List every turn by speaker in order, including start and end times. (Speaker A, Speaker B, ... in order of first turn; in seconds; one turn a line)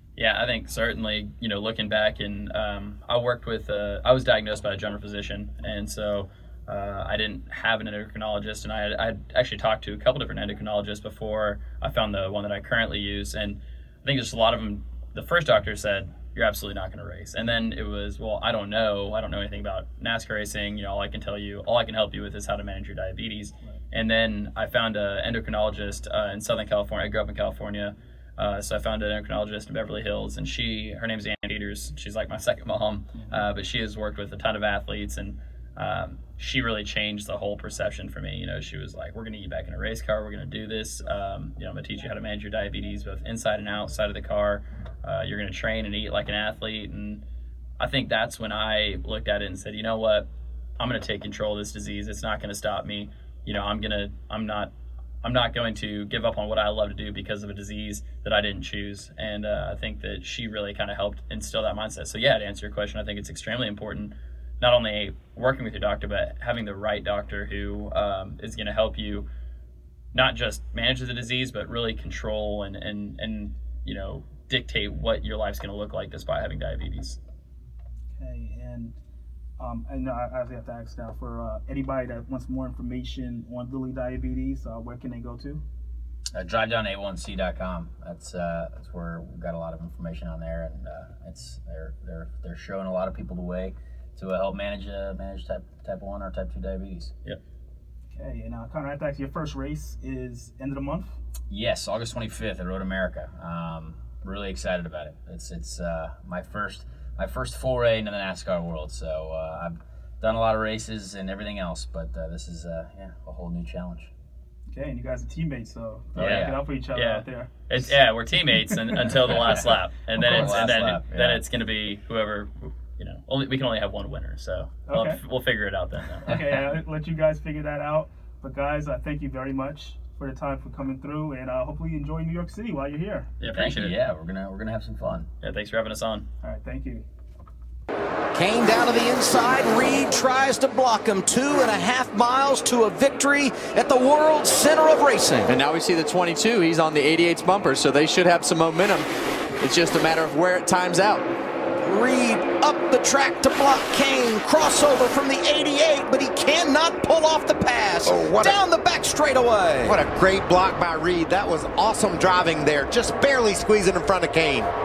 Speaker A: 0.2-47.2
Speaker B: 33.1-33.4
Speaker A: 47.8-50.3
Speaker A: 50.8-54.7
Speaker A: 55.2-69.3
Speaker A: 70.1-77.2
Speaker B: 78.2-79.0
Speaker B: 79.6-85.6
Speaker C: 86.4-97.1
Speaker B: 98.1-101.2
Speaker C: 101.5-114.1
Speaker B: 114.7-117.8
Speaker A: 116.2-126.2
Speaker C: 116.2-116.5
Speaker B: 118.5-119.2
Speaker C: 119.2-119.7
Speaker B: 120.2-120.6
Speaker C: 120.2-121.4
Speaker B: 124.9-125.2
Speaker B: 126.3-133.3
Speaker A: 133.4-133.9
Speaker C: 133.5-135.3
Speaker A: 135.4-136.3
Speaker B: 136.4-137.1
Speaker D: 138.4-145.5
Speaker E: 145.6-149.1
Speaker E: 149.6-151.2
Speaker D: 158.0-158.7
Speaker D: 159.7-160.1
Speaker F: 159.9-164.7